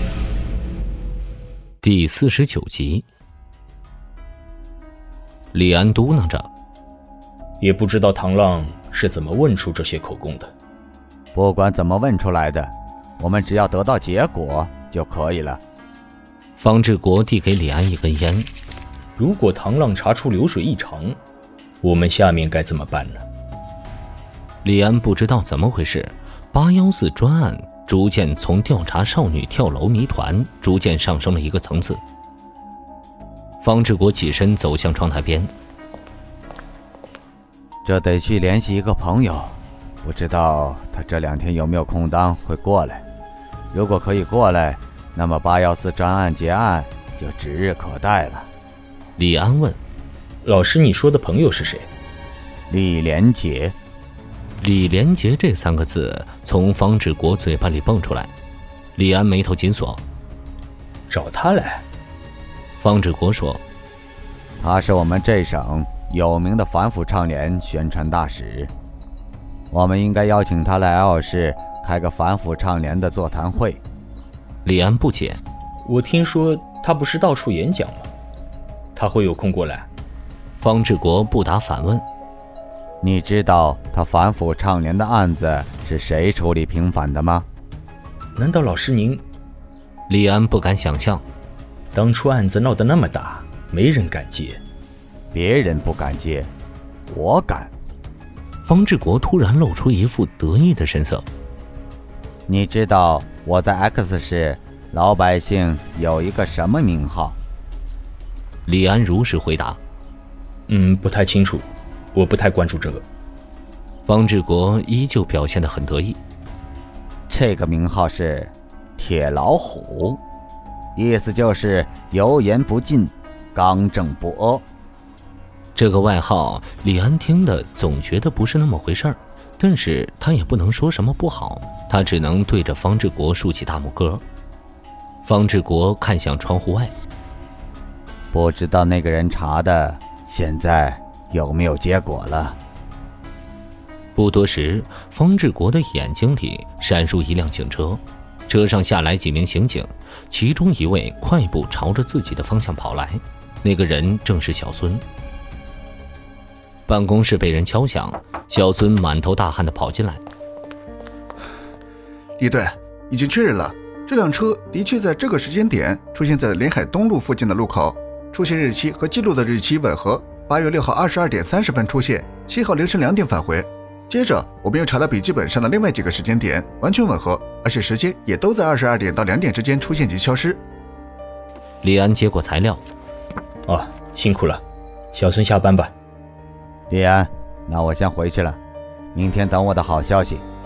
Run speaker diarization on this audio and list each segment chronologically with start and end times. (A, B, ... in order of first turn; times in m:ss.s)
0:01.8-0:03.0 A
0:05.5-0:06.5 A
0:07.6-0:10.5 B
0:11.3-0:15.6 C
0:16.6-0:18.5 A
0:19.2-0:21.2 B
0:21.8-0:23.2 B
0:24.6-0:32.0 A
0:33.6-0:35.5 A
0:37.8-0:43.0 C
0:43.7-0:48.5 C
0:49.2-0:49.8 A
0:50.4-0:51.9 B
0:52.7-0:53.7 C
0:54.6-0:58.3 A
0:59.0-1:00.0 A
1:01.1-1:01.8 B
1:02.8-1:03.6 A
1:04.6-1:08.7 C
1:09.7-1:13.8 C
1:14.6-1:15.4 A
1:15.8-1:18.1 B
1:19.0-1:19.9 B
1:20.6-1:22.0 A
1:23.0-1:27.5 C
1:28.4-1:29.2 B
1:30.1-1:31.2 A
1:31.9-1:34.6 B
1:35.3-1:36.5 C
1:37.1-1:37.7 C
1:38.6-1:41.2 A
1:42.5-1:47.4 C
1:48.7-1:49.8 A
1:50.7-1:53.0 B
1:54.1-1:56.2 A
1:57.3-2:00.2 C
2:01.0-2:04.6 C
2:05.8-2:14.2 A
2:15.2-2:16.9 A
2:18.3-2:22.6 C
2:24.2-2:35.0 A
2:36.9-2:40.2 A
2:42.4-3:00.6 D
3:01.8-3:02.8 A
3:03.7-3:04.6 B
3:05.1-3:05.9 B
3:06.9-3:08.6 C
3:09.1-3:10.4 C